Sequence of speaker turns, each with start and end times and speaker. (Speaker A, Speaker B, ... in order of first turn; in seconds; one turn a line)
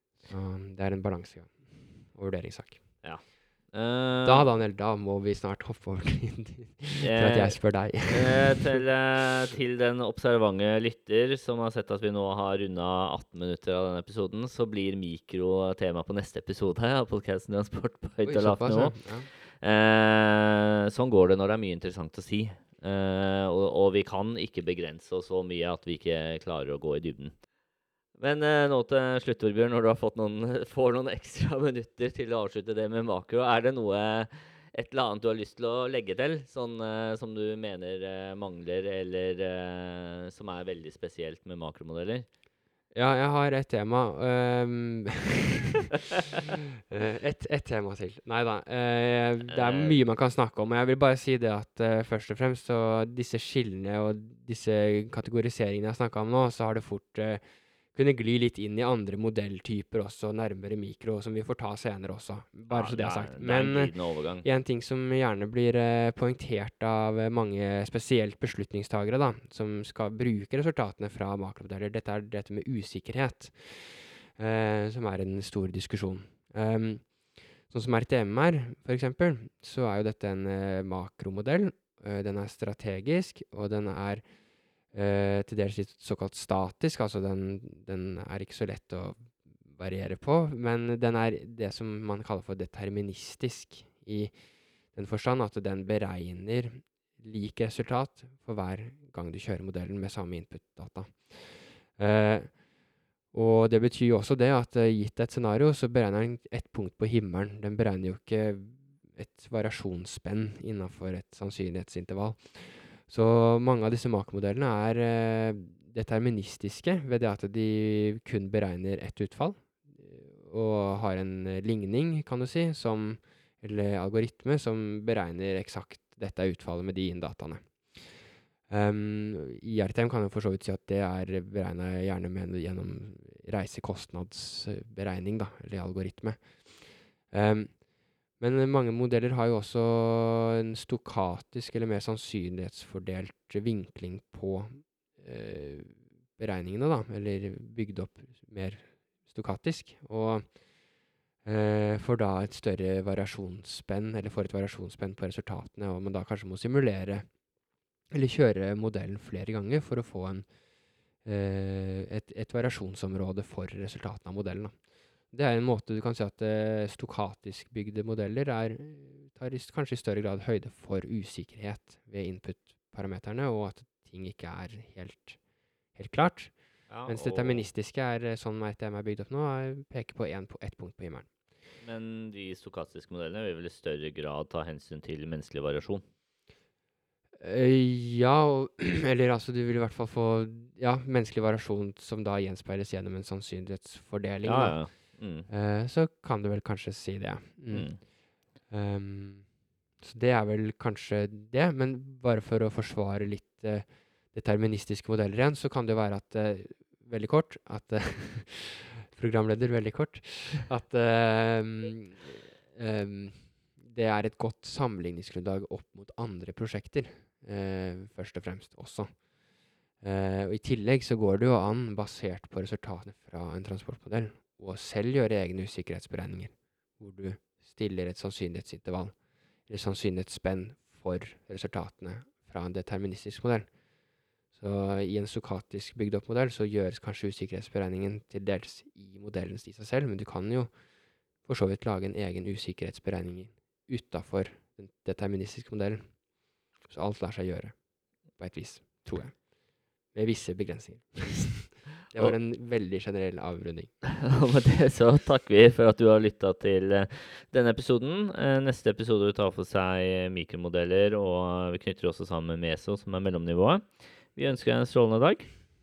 Speaker A: 0.3-2.8
Speaker B: 3.0-4.4
Speaker A: 4.2-8.8
Speaker B: 7.0-27.4
Speaker A: 18.2-19.3
Speaker B: 28.2-42.3
Speaker A: 42.9-45.9
Speaker A: 46.9-84.2
Speaker B: 49.5-50.0
Speaker B: 62.7-64.5
Speaker A: 84.9-94.4
Speaker A: 94.9-102.6
Speaker A: 103.3-128.2
Speaker A: 128.7-137.8
Speaker A: 138.4-150.5
Speaker A: 151.4-157.3
Speaker A: 158.1-160.5
Speaker A: 161.2-164.8
Speaker A: 165.3-175.4
Speaker A: 175.9-176.5
Speaker B: 176.9-177.7
Speaker A: 177.1-181.3
Speaker B: 181.8-186.0
Speaker A: 187.4-198.1
Speaker B: 194.4-195.5
Speaker B: 197.7-198.0
Speaker A: 198.7-199.5
Speaker A: 200.0-219.2
Speaker A: 220.0-229.2
Speaker A: 229.7-233.7
Speaker A: 234.5-240.7
Speaker A: 241.4-246.2
Speaker A: 246.8-247.8
Speaker A: 248.3-249.5
Speaker A: 250.1-253.9
Speaker B: 254.1-265.5